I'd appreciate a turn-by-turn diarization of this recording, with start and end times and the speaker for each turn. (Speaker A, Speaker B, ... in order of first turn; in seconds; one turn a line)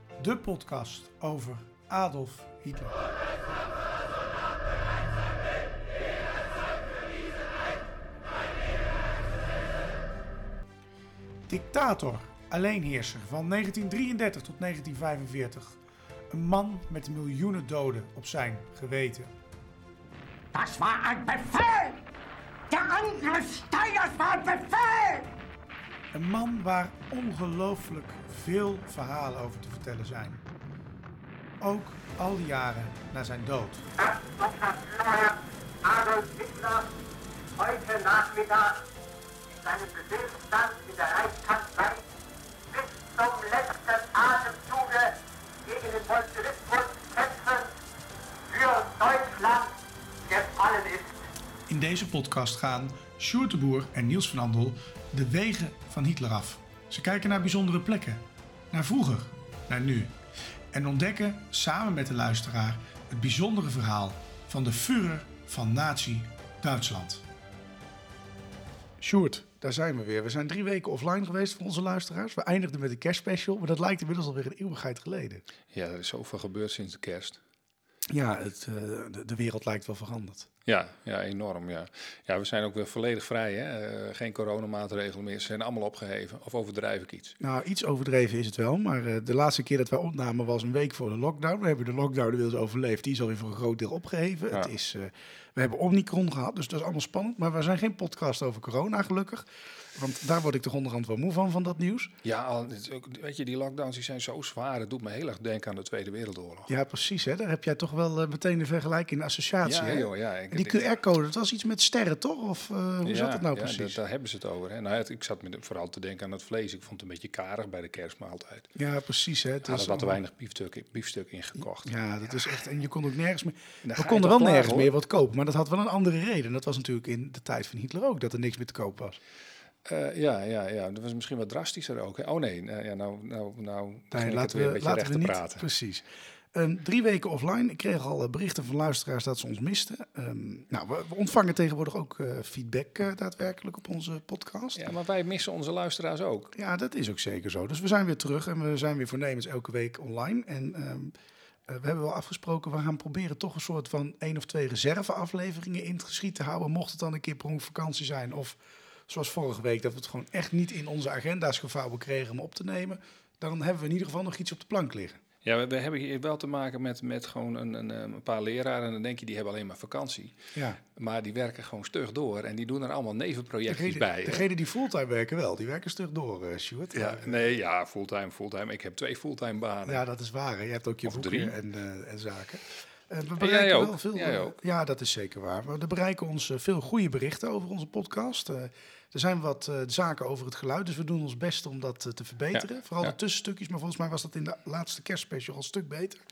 Speaker A: 0.2-3.0
Speaker A: 11.5-19.3
Speaker A: 20.5-22.0
Speaker A: 22.7-25.3
Speaker A: 26.1-30.4
Speaker A: 31.6-33.9
Speaker B: 34.0-37.0
Speaker B: 37.6-38.8
Speaker B: 39.5-42.1
Speaker B: 42.7-47.8
Speaker B: 48.5-51.2
Speaker A: 51.7-60.1
Speaker A: 60.7-67.2
Speaker A: 69.0-75.4
Speaker C: 75.7-77.4
Speaker A: 78.1-80.5
Speaker C: 80.7-87.4
Speaker A: 87.4-102.1
Speaker C: 102.2-106.7
Speaker A: 106.7-114.0
Speaker C: 109.6-110.9
Speaker C: 113.0-118.7
Speaker A: 118.7-120.2
Speaker C: 119.6-121.9
Speaker A: 121.8-129.2
Speaker C: 123.8-124.9
Speaker C: 129.8-135.6
Speaker A: 134.1-144.8
Speaker C: 144.7-146.5
Speaker A: 146.5-151.1
Speaker A: 151.7-165.2
Speaker C: 165.4-174.4
Speaker A: 170.5-170.8
Speaker A: 173.7-177.4
Speaker C: 176.9-180.0
Speaker A: 179.9-196.2
Speaker C: 181.0-181.6
Speaker C: 183.4-184.6
Speaker C: 192.5-193.1